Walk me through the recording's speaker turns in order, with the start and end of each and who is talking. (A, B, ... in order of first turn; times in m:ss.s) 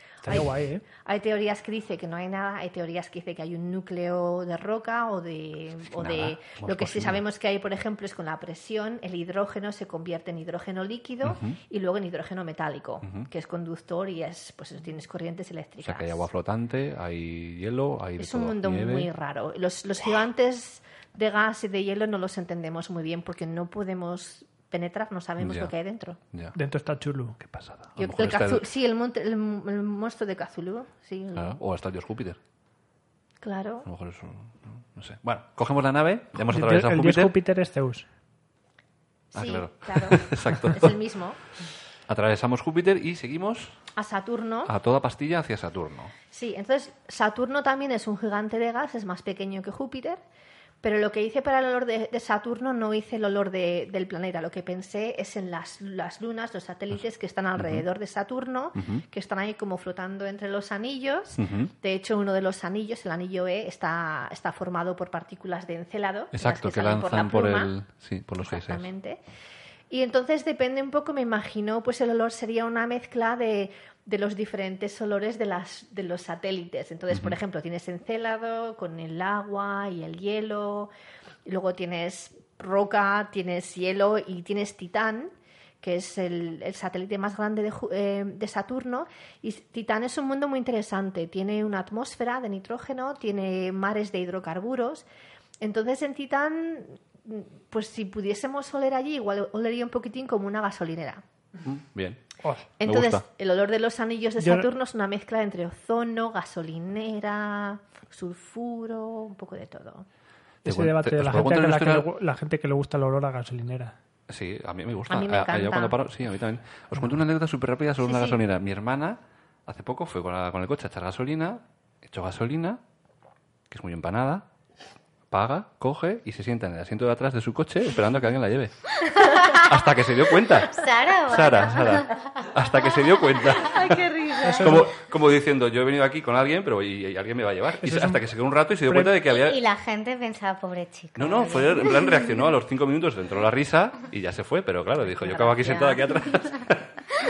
0:00.2-0:00.8 A
0:01.0-0:16.2 B
0:05.9-0:07.2 C
0:11.2-0:11.6 C
0:15.8-0:19.1 C
0:18.2-0:26.2 B
0:25.4-0:25.7 C
0:26.5-0:27.4 A
0:27.4-0:28.7 C
0:28.0-0:31.6 B
0:31.3-0:32.4 C
0:33.4-0:33.9 B
0:33.8-0:37.3 C
0:36.4-0:38.0 A
0:39.3-0:41.4 B
0:39.3-0:41.0 C
0:42.1-0:43.8 C
0:43.9-0:44.7 B
0:44.6-0:46.1 C
0:46.3-0:50.2 B
0:50.8-1:07.7 B
0:57.6-0:57.8 C
0:58.8-0:59.0 C
1:01.4-1:01.7 C
1:06.3-1:08.9 C
1:08.4-1:09.2 B
1:09.9-1:20.9 B
1:17.1-1:17.4 C
1:21.4-1:35.0 B
1:35.6-1:41.2 B
1:41.6-1:42.3 C
1:42.8-1:50.0 B
1:42.8-1:43.2 C
1:44.4-1:44.7 A
1:50.6-1:52.1 C
1:50.6-1:53.9 A
1:54.3-2:02.8 C
1:55.1-1:56.0 B
1:58.0-1:58.4 B
2:03.7-2:04.5 C
2:05.3-2:14.1 C
2:09.2-2:09.7 D
2:10.5-2:14.6 D
2:13.6-2:14.9 B
2:14.4-2:14.9 A
2:14.6-2:19.6 C
2:17.8-2:18.2 A
2:18.9-2:19.1 A
2:19.3-2:22.4 D
2:21.2-2:27.0 C
2:25.1-2:26.1 D